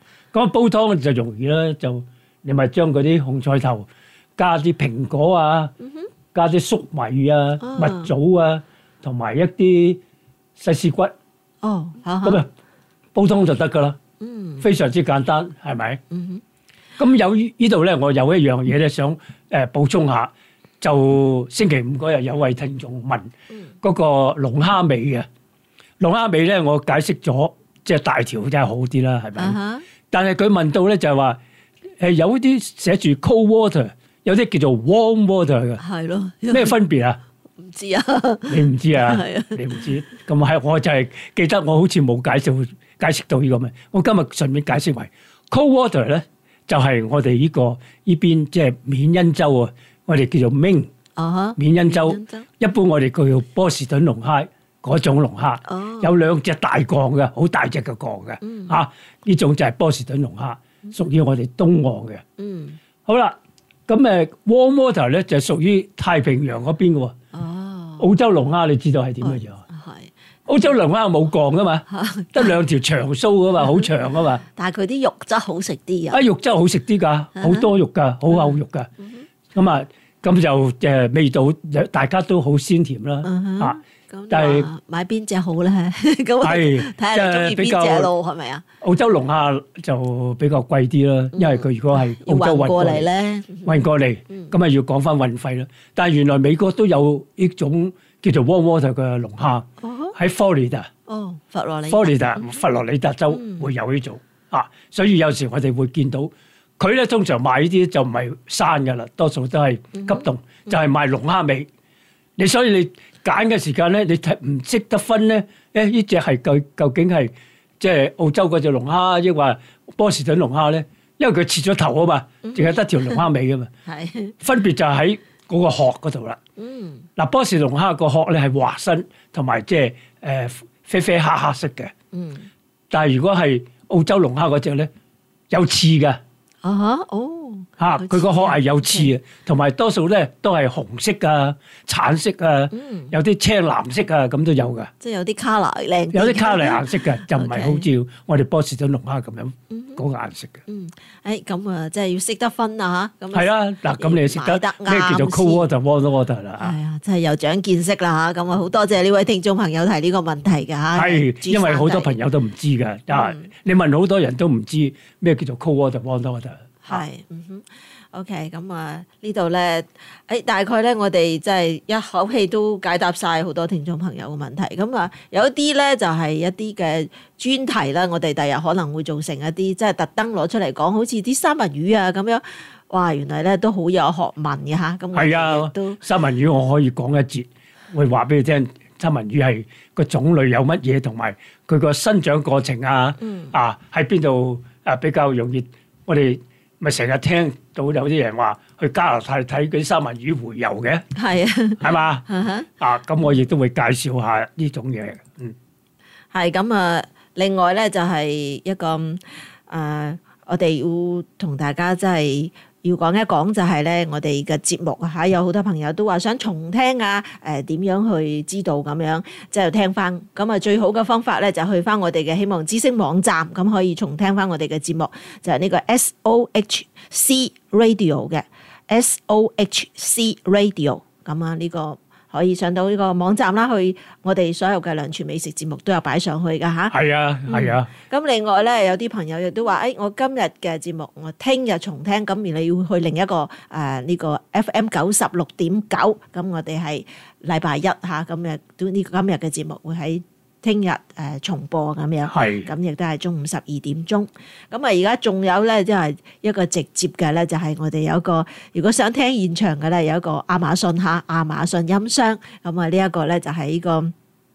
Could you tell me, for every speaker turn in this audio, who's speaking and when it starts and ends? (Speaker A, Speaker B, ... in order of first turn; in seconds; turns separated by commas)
Speaker A: 0.3-5.7, Speaker B: 5.8-6.1, Speaker A: 6.3-10.0, Speaker B: 7.6-8.1, Speaker A: 10.6-11.1, Speaker B: 11.6-12.4, Speaker A: 12.2-12.5, Speaker A: 13.1-14.0, Speaker B: 14.2-14.6, Speaker A: 14.6-16.0, Speaker B: 16.1-16.4, Speaker A: 17.0-23.3, Speaker A: 23.8-25.3, Speaker A: 26.0-29.6, Speaker B: 29.4-29.8, Speaker A: 30.1-31.4, Speaker A: 32.0-35.8, Speaker B: 35.8-36.8, Speaker A: 36.5-37.2, Speaker B: 37.6-39.8, Speaker A: 38.5-50.9, Speaker B: 51.1-52.5, Speaker A: 51.6-62.2, Speaker B: 55.6-56.1, Speaker B: 58.4-58.7, Speaker B: 62.4-62.8, Speaker A: 63.0-63.4, Speaker A: 63.9-67.1, Speaker B: 67.3-68.1, Speaker A: 68.0-69.6, Speaker B: 69.2-70.1, Speaker A: 70.5-74.4, Speaker B: 71.9-72.6, Speaker B: 74.4-76.2, Speaker A: 76.1-78.9, Speaker B: 77.3-77.7, Speaker B: 78.3-79.2, Speaker A: 79.5-83.8, Speaker B: 83.2-88.6, Speaker A: 84.3-84.7, Speaker A: 86.4-88.1, Speaker A: 88.8-93.1, Speaker B: 91.3-94.5, Speaker A: 93.6-100.9, Speaker B: 99.8-100.1, Speaker B: 101.1-102.5, Speaker A: 101.9-111.7, Speaker B: 103.3-103.7, Speaker B: 109.9-110.3, Speaker A: 112.4-123.7, Speaker B: 122.4-123.2, Speaker B: 123.8-124.3, Speaker A: 124.4-126.4, Speaker B: 126.6-127.1, Speaker A: 127.2-131.9, Speaker B: 132.1-132.5, Speaker A: 132.9-134.9, Speaker A: 135.5-136.2, Speaker B: 136.6-139.1, Speaker A: 137.8-144.9, Speaker B: 142.7-143.1, Speaker B: 145.0-147.8, Speaker A: 146.1-150.6, Speaker B: 149.7-150.0, Speaker B: 150.7-155.7, Speaker A: 153.3-156.8, Speaker B: 156.6-162.2, Speaker A: 160.9-167.0, Speaker B: 163.1-163.5, Speaker B: 166.8-186.0, Speaker A: 185.1-201.1, Speaker B: 193.2-193.5, Speaker B: 201.1-202.7, Speaker A: 201.8-202.2, Speaker A: 202.8-205.5, Speaker B: 206.3-264.1, Speaker A: 236.9-237.9, Speaker A: 252.3-252.7